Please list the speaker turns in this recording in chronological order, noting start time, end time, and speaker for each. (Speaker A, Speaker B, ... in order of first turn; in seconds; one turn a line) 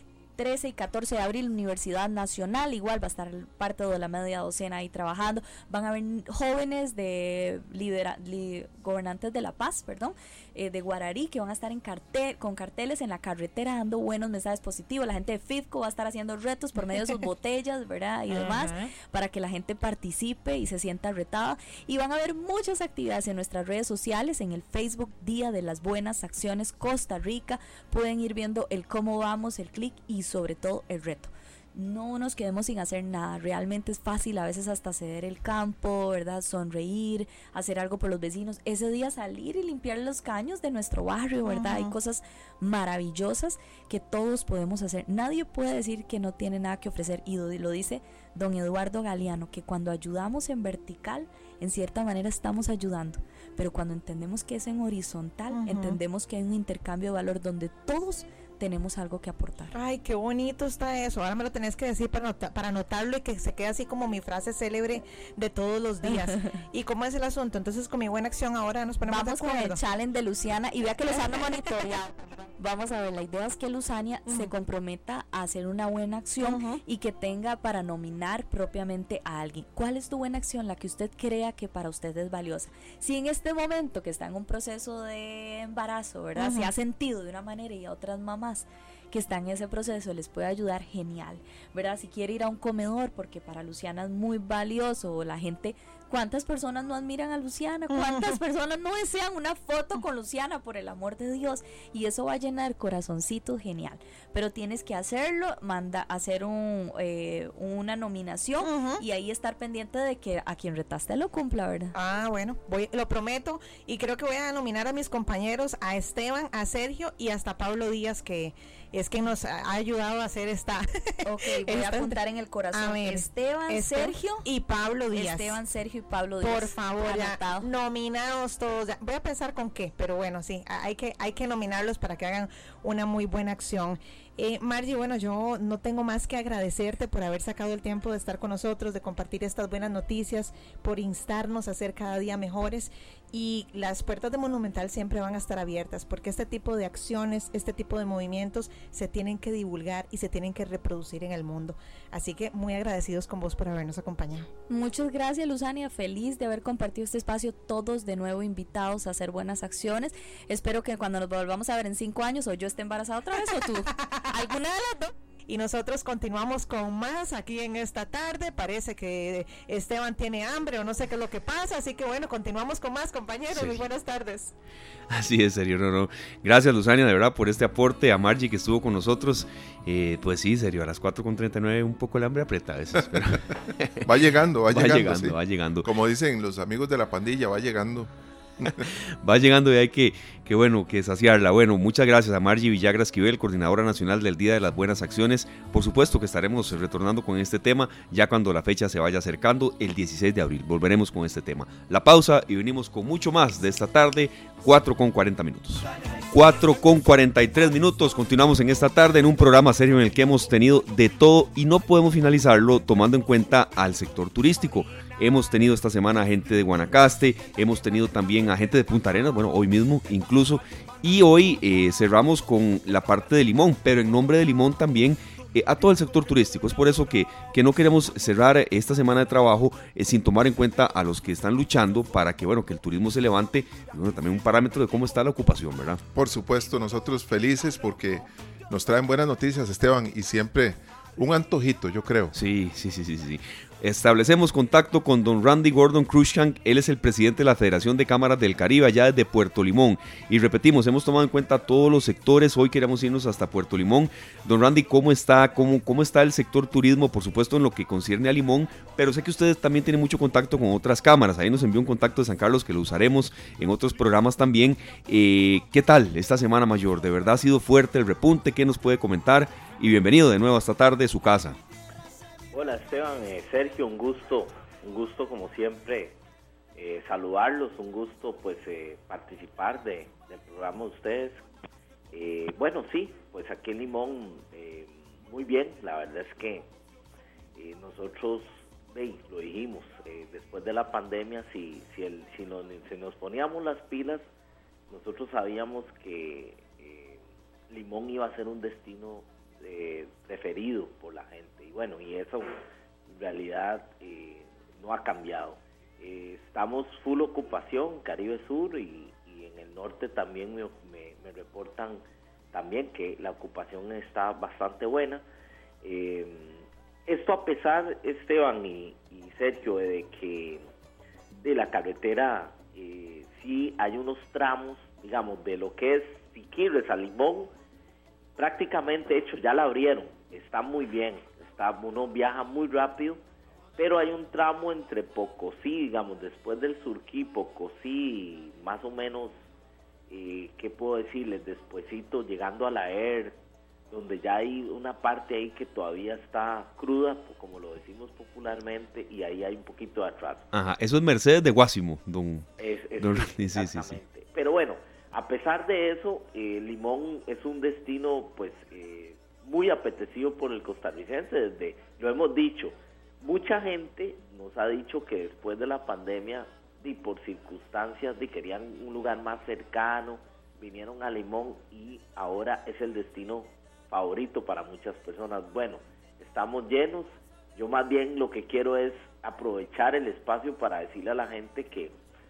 Speaker A: 0.4-59.7
Speaker B: 18.3-18.9
Speaker B: 41.5-41.9
Speaker B: 55.5-56.0
Speaker B: 59.7-69.8
Speaker A: 66.0-66.6
Speaker A: 69.0-111.9
Speaker B: 71.2-71.5
Speaker B: 76.4-76.8
Speaker B: 86.4-86.7
Speaker B: 97.9-98.4
Speaker B: 108.6-109.0
Speaker B: 111.9-122.2
Speaker A: 121.2-124.5
Speaker B: 122.7-125.6
Speaker A: 125.1-127.7
Speaker B: 126.4-154.5
Speaker A: 154.7-165.0
Speaker B: 164.1-164.6
Speaker B: 165.5-174.5
Speaker C: 173.5-173.8
Speaker C: 175.1-184.0
Speaker D: 184.0-188.9
Speaker C: 184.7-185.9
Speaker C: 188.8-236.0
Speaker D: 236.1-242.3
Speaker C: 242.3-271.6
Speaker E: 272.5-276.2
Speaker E: 276.8-281.4
Speaker E: 282.1-286.7
Speaker E: 287.6-294.2
Speaker E: 294.9-315.2
Speaker E: 315.8-320.6
Speaker E: 321.4-327.5
Speaker E: 328.4-333.2
Speaker E: 333.8-339.4
Speaker E: 340.1-343.4
Speaker E: 343.9-350.5
Speaker C: 350.5-354.0
Speaker E: 352.6-381.9